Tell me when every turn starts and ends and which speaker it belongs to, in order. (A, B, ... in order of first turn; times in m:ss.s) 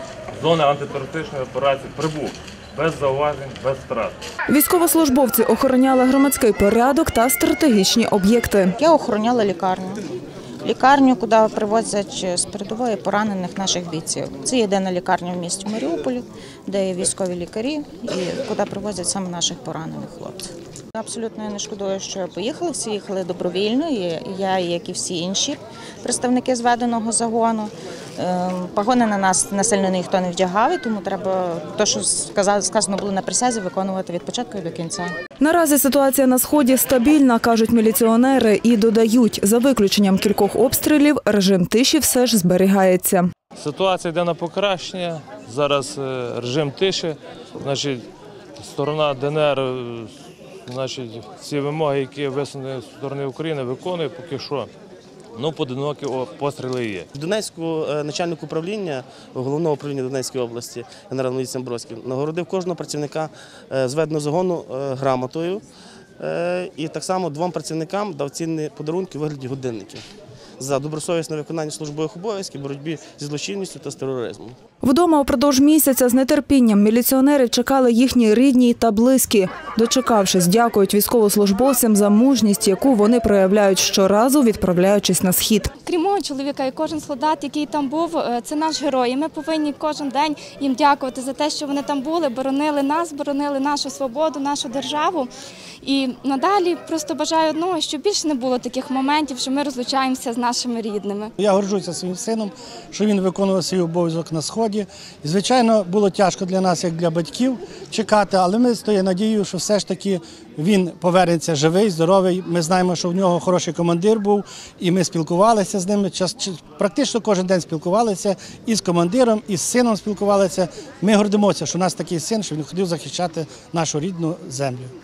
0:00.4-0:04.2 A
0:04.5-0:08.8 B
0:08.8-0:10.0 C
0:10.6-0:35.2 C
0:35.4-0:43.3 B
0:43.6-0:48.0 A
0:48.6-0:50.1 A
0:50.6-0:54.7 A
0:55.3-0:57.1 A
0:57.1-1:05.6 D
1:06.2-1:10.0 D
1:10.6-1:14.6 D
1:14.8-1:25.7 B
1:25.8-1:35.3 E
1:35.8-1:41.3 E
1:41.4-2:04.9 F